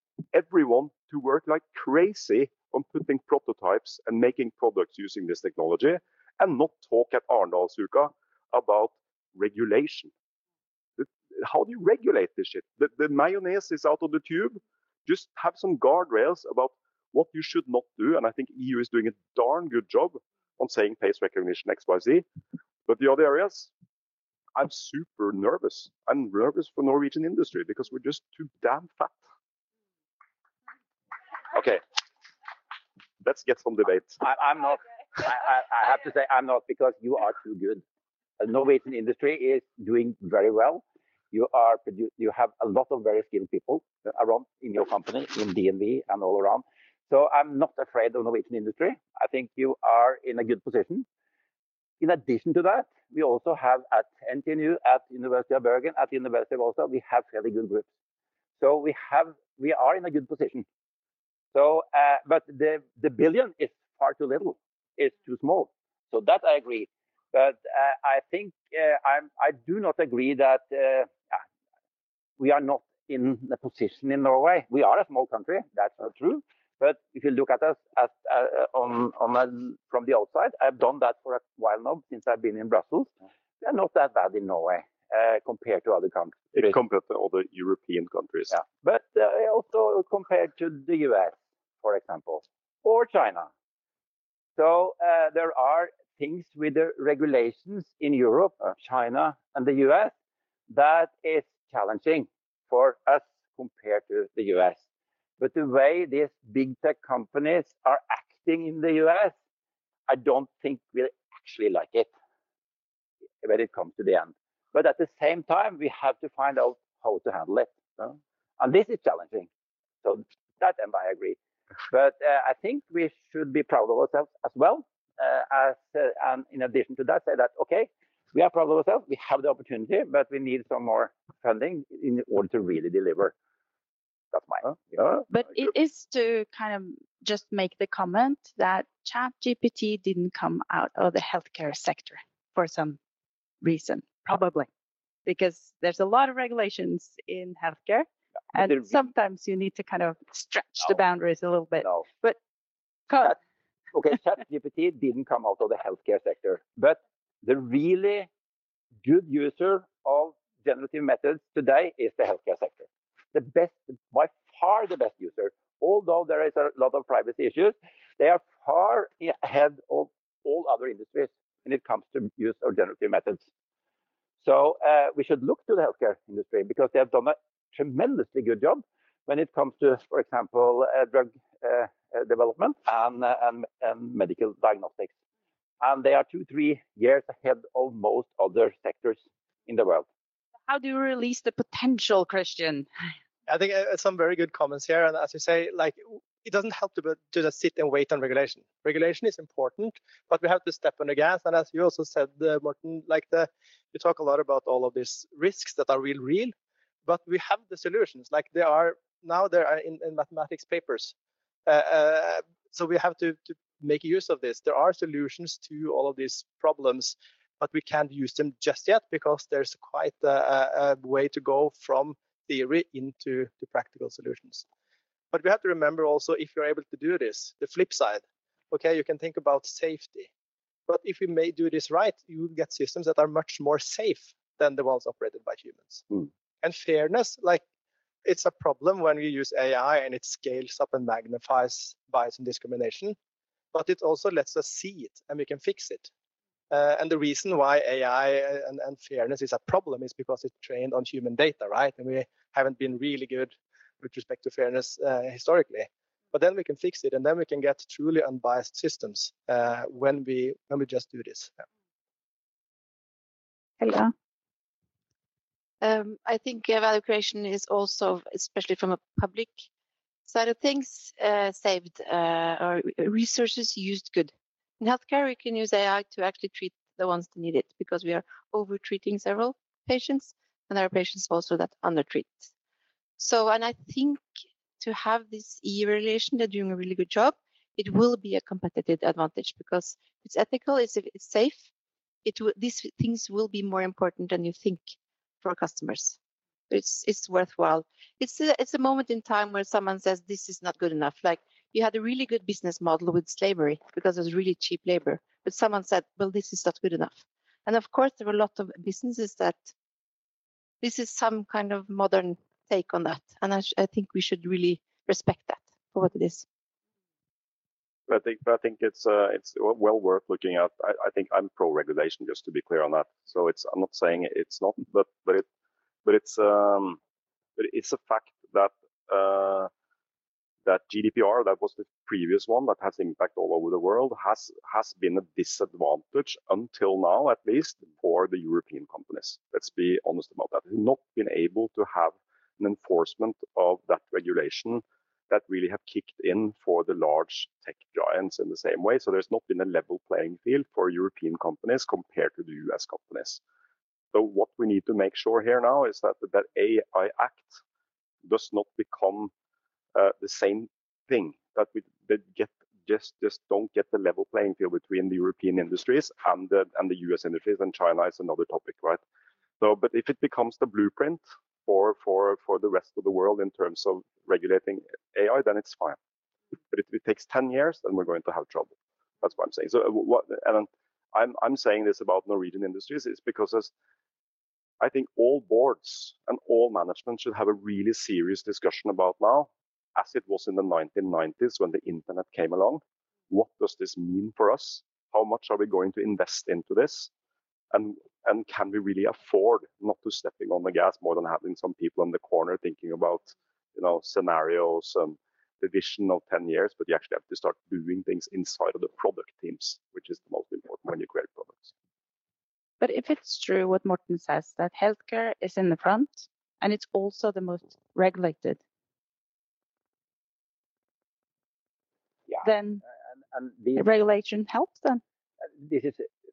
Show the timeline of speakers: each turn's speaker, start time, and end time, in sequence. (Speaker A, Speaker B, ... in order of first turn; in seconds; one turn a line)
Speaker A: 0.3-10.1
Speaker A: 11.0-22.2
Speaker A: 22.9-23.7
Speaker A: 24.6-29.2
Speaker A: 31.5-31.8
Speaker A: 33.2-34.2
Speaker B: 34.2-37.8
Speaker B: 38.4-51.1
Speaker B: 52.0-57.9
Speaker B: 58.6-60.7
Speaker B: 61.5-71.4
Speaker B: 72.4-86.8
Speaker A: 86.5-88.5
Speaker B: 88.5-93.5
Speaker B: 94.6-100.1
Speaker B: 100.7-104.8
Speaker B: 105.4-109.3
Speaker B: 110.1-112.1
Speaker B: 113.4-119.5
Speaker B: 120.0-121.4
Speaker B: 121.9-133.3
Speaker B: 134.3-135.1
Speaker C: 135.3-143.0
Speaker C: 143.6-144.7
Speaker C: 145.2-152.4
Speaker B: 148.6-148.9
Speaker C: 153.1-153.3
Speaker B: 153.9-158.3
Speaker B: 159.0-173.5
Speaker B: 174.4-185.1
Speaker B: 185.8-190.1
Speaker C: 190.7-192.9
Speaker D: 193.5-206.5
Speaker D: 207.1-211.1
Speaker D: 211.7-224.7
Speaker D: 225.3-230.3
Speaker D: 230.9-236.1
Speaker D: 236.6-237.6
Speaker D: 238.2-243.2
Speaker D: 243.7-246.1
Speaker D: 246.7-261.6
Speaker C: 263.8-264.1
Speaker E: 265.8-269.7
Speaker E: 270.2-282.5
Speaker E: 283.2-284.3
Speaker E: 284.8-291.7
Speaker E: 292.2-296.2
Speaker E: 296.7-309.7
Speaker E: 310.8-316.5
Speaker A: 318.1-325.5
Speaker A: 326.1-327.0
Speaker A: 327.6-329.7
Speaker A: 330.6-353.4
Speaker A: 354.1-357.6
Speaker A: 358.2-359.3
Speaker A: 359.9-369.0
Speaker A: 369.6-376.0
Speaker A: 376.7-383.7
Speaker A: 384.8-397.1
Speaker A: 397.7-411.7
Speaker C: 412.8-418.6
Speaker C: 422.4-422.8
Speaker B: 423.3-423.9
Speaker C: 423.8-425.0
Speaker B: 425.6-426.1